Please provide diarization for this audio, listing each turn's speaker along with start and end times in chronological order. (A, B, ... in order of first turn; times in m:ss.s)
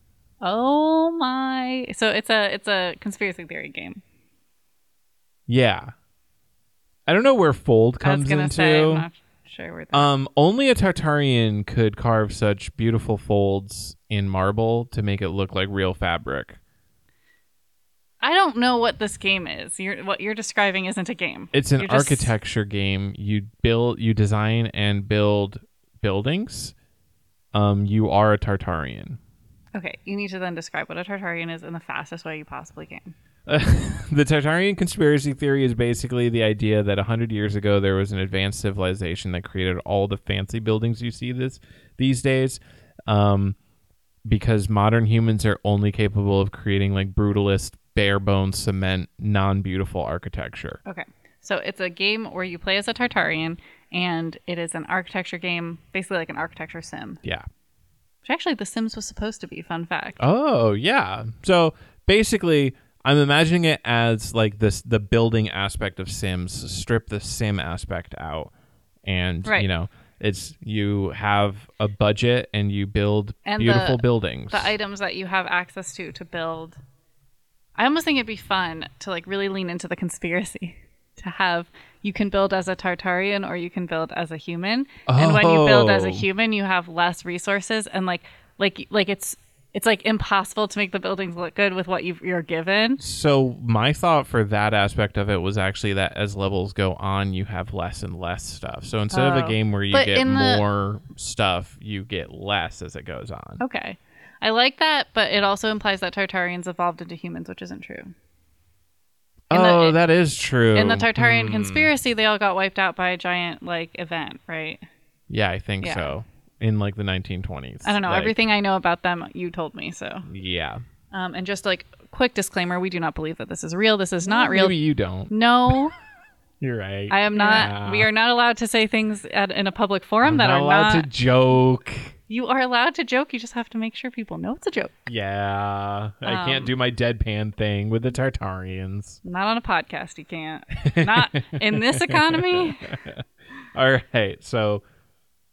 0:00.4-0:04.0 A
0:05.5-0:05.9 B
0:07.1-0:09.1 B
0:08.0-0:10.1 A
0:09.9-0:16.6 B
0:18.2-0:22.3 A
0:21.5-0:26.8 B
0:27.5-0:29.2 B
0:29.8-0:33.1 A
0:33.5-0:43.6 B
0:44.2-0:50.8 B
0:50.8-0:57.2 A
0:58.2-1:00.2 A
1:00.2-1:08.5 B
1:09.1-1:14.7 B
1:13.4-1:16.8 A
1:17.8-1:33.0 A
1:25.1-1:26.3 B
1:33.0-1:43.6 B
1:39.1-1:40.6 A
1:43.6-1:48.1 A
1:49.5-1:51.9 B
1:49.5-1:50.0 A
1:50.7-1:54.8 A
1:55.3-1:58.4 B
1:55.8-1:56.1 A
1:57.8-2:00.3 A
2:00.3-2:00.8 B
2:01.1-2:04.8 A
2:04.2-2:05.8 B
2:05.3-2:05.9 A
2:06.6-2:08.1 B
2:07.1-2:11.1 A
2:10.2-2:12.2 B
2:12.3-2:15.0 A
2:15.1-2:19.2 B
2:16.2-2:16.7 A
2:19.2-2:22.9 A
2:20.8-2:24.8 B